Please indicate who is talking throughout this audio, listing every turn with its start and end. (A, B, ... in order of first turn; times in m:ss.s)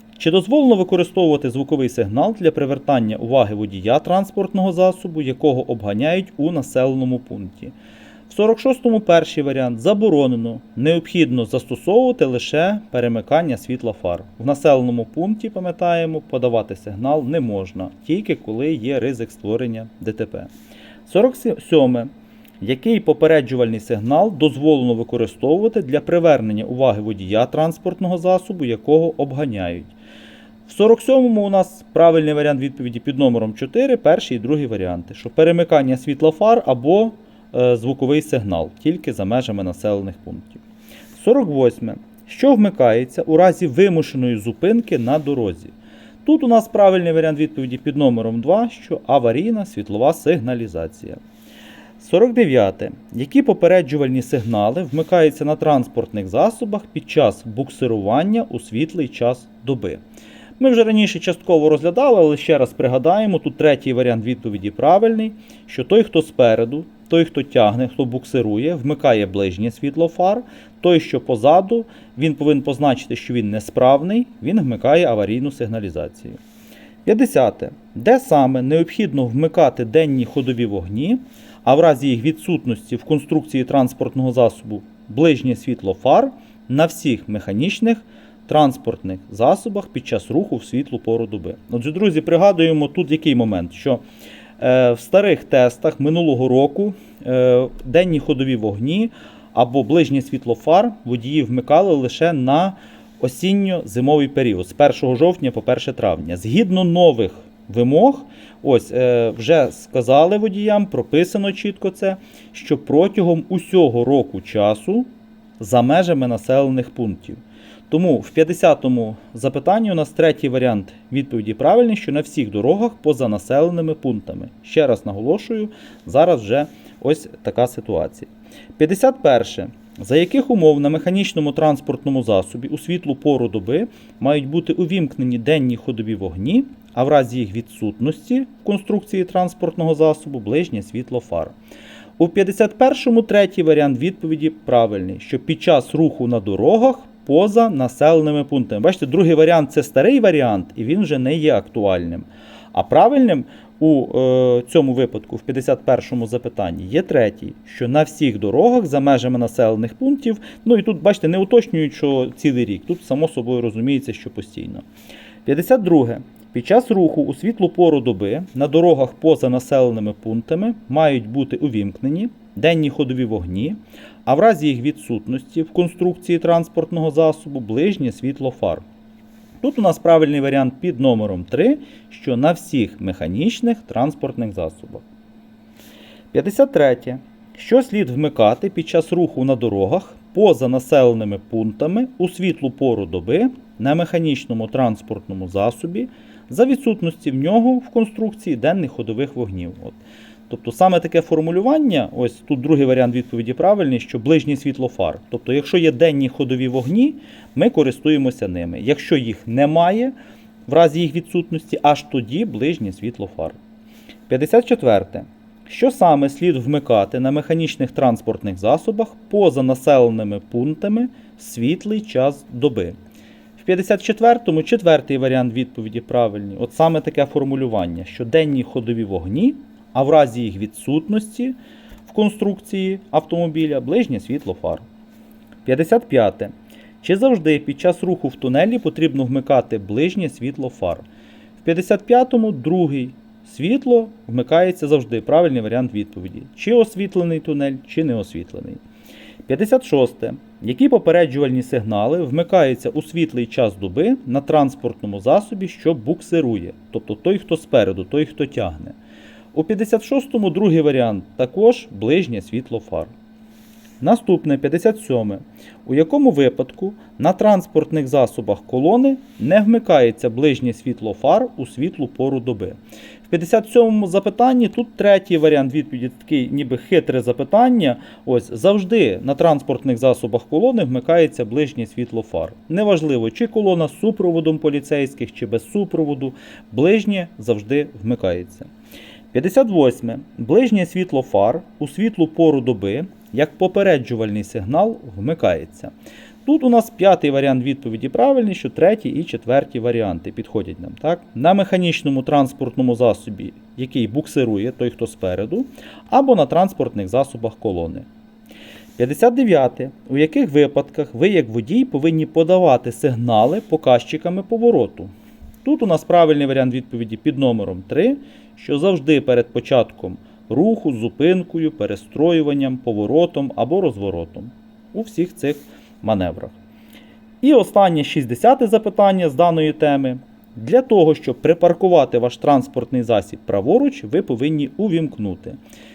0:00.2-0:07.7 A
0:08.3-0:20.5 A
0:21.0-0:22.1 A
0:22.6-0:29.9 A
0:30.6-0:40.6 A
0:41.2-0:45.7 A
0:46.2-0:51.2 A
0:52.0-1:00.0 A
1:00.6-1:16.4 A
1:17.0-1:34.0 A
1:34.6-2:21.5 A
2:22.2-2:44.8 A
2:45.4-2:58.8 A
2:59.6-3:05.0 A
3:06.3-3:20.0 A
3:20.5-3:30.1 A
3:30.7-3:33.6 A
3:34.3-3:42.9 A
3:43.6-3:51.6 A
3:52.1-3:54.8 A
3:55.6-4:01.0 A
4:01.6-4:08.8 A
4:09.5-4:19.0 A
4:19.5-4:23.1 A
4:24.0-4:48.7 A
4:49.3-4:55.9 A
4:56.4-5:08.1 A
5:09.0-5:15.1 A
5:15.6-5:26.6 A
5:27.4-5:35.6 A